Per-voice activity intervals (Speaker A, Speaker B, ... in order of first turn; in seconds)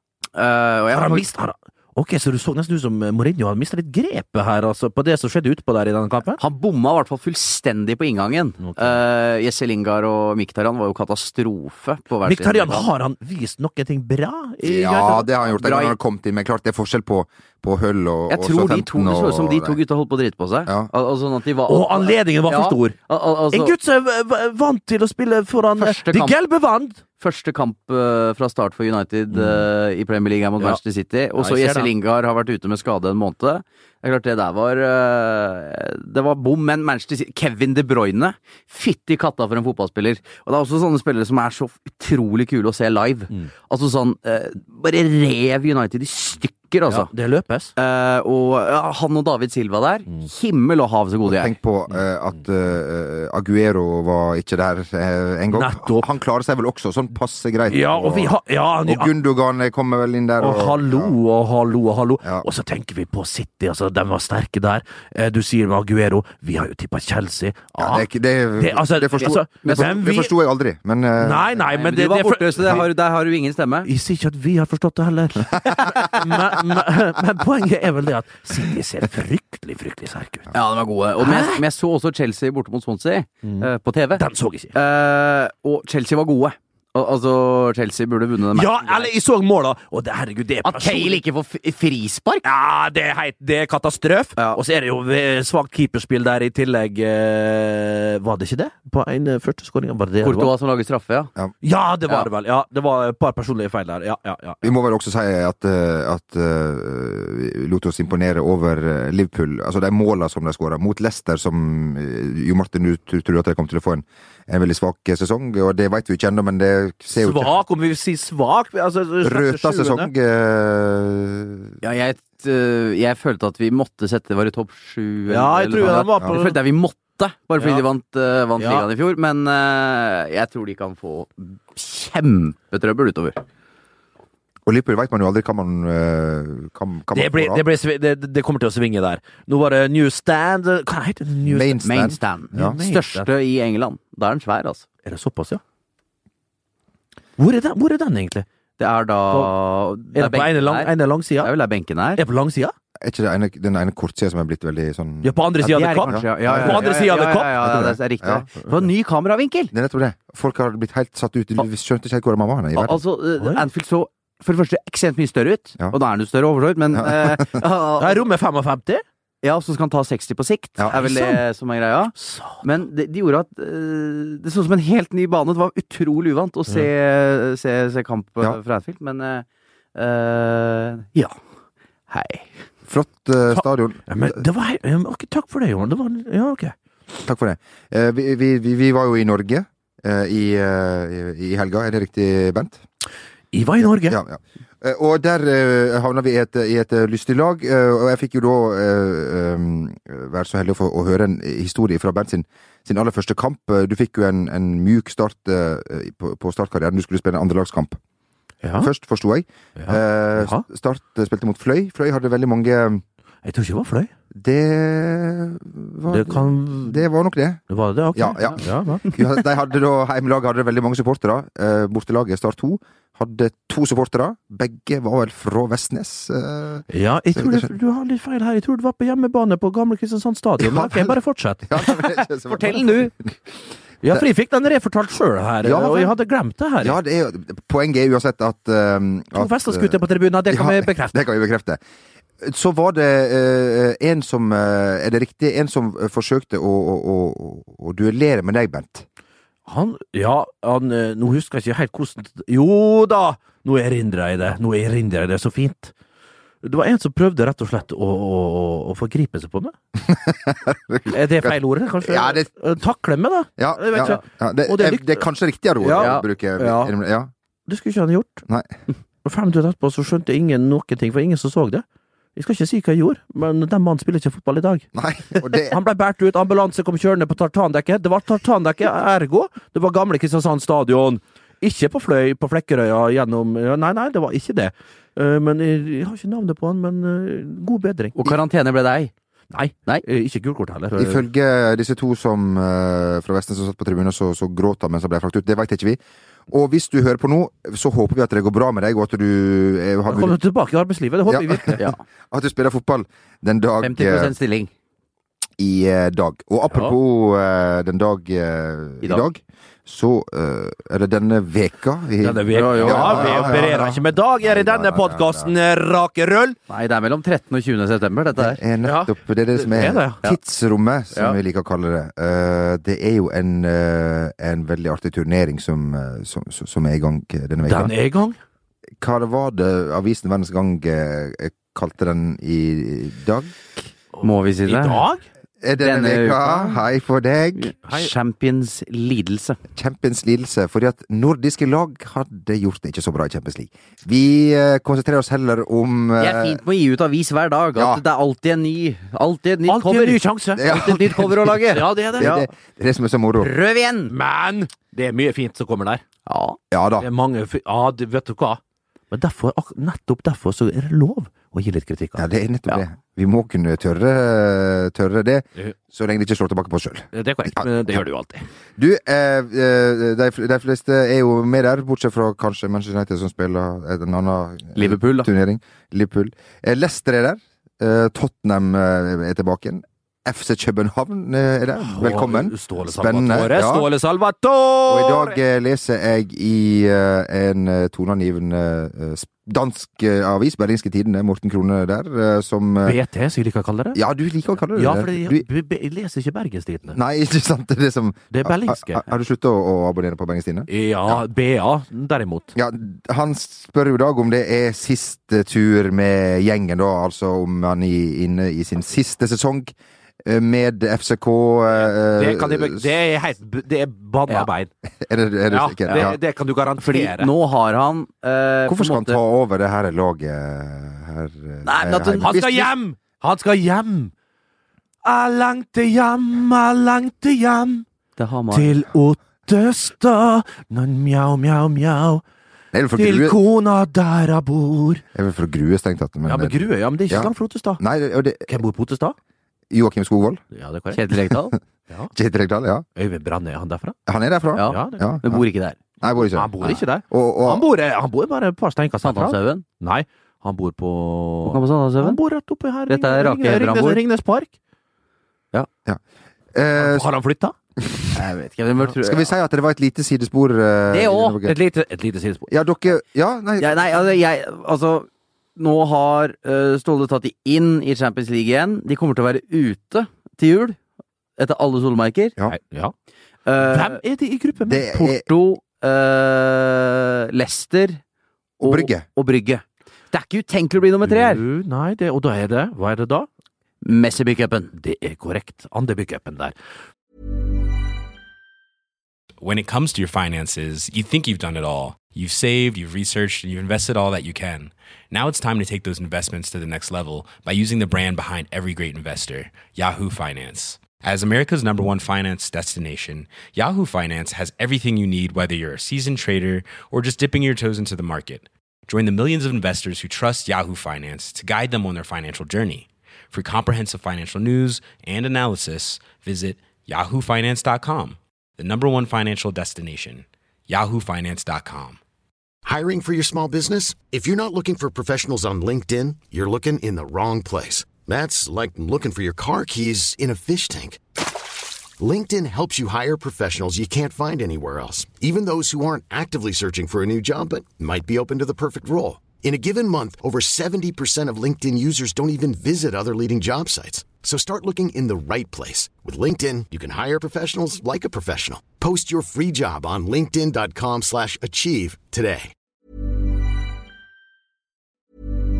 Speaker A: 0.3-1.3, 6.4-12.9, 15.6-15.9, 18.3-23.7, 25.8-26.4, 27.2-47.1, 47.8-51.5, 69.2-70.0, 71.7-73.9, 80.5-89.1, 90.6-92.4, 100.2-101.3, 121.8-133.4, 141.8-144.8, 148.8-152.2, 155.6-159.7, 162.8-168.2, 169.4-181.3, 182.1-182.4, 231.8-233.1, 265.9-266.2, 288.1-289.1, 303.8-304.7, 312.5-313.7, 316.7-318.6, 334.2-335.1, 335.8-336.8, 337.6-339.6, 346.2-352.4, 353.4-354.1, 356.3-356.6, 374.7-375.3, 416.8-419.2, 421.6-422.4, 428.2-428.8, 440.9-441.6, 444.6-445.8, 449.0-449.6, 451.4-452.2, 452.9-454.0, 458.1-459.3, 460.9-461.4, 463.6-470.8, 471.4-472.4, 473.4-474.0, 475.2-478.0, 478.6-481.4, 483.8-484.7
Speaker B: 0.9-6.4, 8.6-9.0, 12.2-15.3, 21.7-23.0, 23.5-27.0, 29.4-29.6, 31.4-31.9, 46.9-47.7, 55.5-56.0, 57.7-59.1, 60.4-68.0, 68.6-70.3, 71.2-72.9, 73.8-80.5, 81.2-81.7, 83.4-84.7, 88.5-91.2, 92.4-100.5, 101.6-104.7, 117.2-120.1, 125.3-126.6, 127.6-127.8, 128.6-128.9, 137.1-143.3, 145.0-145.6, 147.4-148.4, 150.1-151.5, 152.2-152.7, 155.2-157.7, 163.4-163.6, 168.0-169.0, 170.9-171.4, 172.2-172.6, 183.5-186.7, 193.5-194.2, 208.6-208.9, 209.8-210.6, 213.4-214.1, 216.1-217.0, 217.7-219.1, 226.9-231.7, 234.0-237.0, 239.3-241.2, 249.7-255.9, 256.6-259.7, 261.1-265.2, 265.8-266.9, 267.7-268.4, 269.2-271.8, 272.4-274.9, 275.4-288.3, 289.5-291.2, 300.1-301.8, 312.2-316.6, 318.8-320.2, 327.6-328.4, 334.2-335.2, 337.8-338.1, 349.7-350.8, 351.6-352.4, 354.1-356.0, 357.0-358.6, 359.1-362.2, 367.1-368.4, 381.8-385.4, 392.8-394.0, 394.7-397.0, 398.3-399.1, 400.7-402.5, 411.8-414.7, 415.5-417.3, 422.1-424.1, 425.0-427.8, 428.5-432.2, 432.9-435.0, 436.2-437.8, 438.4-439.1, 440.5-441.0, 442.9-444.0, 444.6-445.0, 446.3-454.5, 456.8-457.5, 461.4-462.5, 472.5-472.9, 473.6-475.2, 481.0-483.3, 484.7-486.5
Speaker C: 14.6-19.8, 20.6-20.9, 51.2-61.1, 67.8-71.5, 104.6-117.5, 119.2-121.8, 134.7-137.6, 141.4-142.8, 153.0-155.4, 156.1-156.9, 157.6-158.5, 159.7-163.0, 166.9-167.4, 182.9-184.4, 187.2-192.8, 193.8-208.0, 208.8-213.0, 214.3-217.6, 218.1-227.7, 230.6-233.0, 235.6-236.1, 236.8-241.8, 242.4-249.0, 260.0-262.5, 263.6-267.3, 274.9-275.8, 290.9-300.4, 301.3-304.3, 305.6-315.5, 318.4-327.9, 329.0-333.6, 335.6-337.7, 339.7-346.6, 347.7-348.0, 350.6-351.6, 352.1-353.5, 356.7-357.1, 362.2-367.6, 368.8-383.9, 384.9-393.0, 393.9-395.4, 396.9-401.2, 402.5-409.7, 410.2-412.9, 415.0-416.2, 418.7-422.7, 432.7-433.4, 435.1-438.6, 439.7-440.4, 442.1-442.8, 444.1-445.4, 446.0-447.6, 456.5-457.1, 459.0-461.6, 462.5-463.8, 474.6-475.2, 478.6-479.1
Speaker D: 489.4-522.0
Speaker E: 522.6-531.0, 532.0-552.5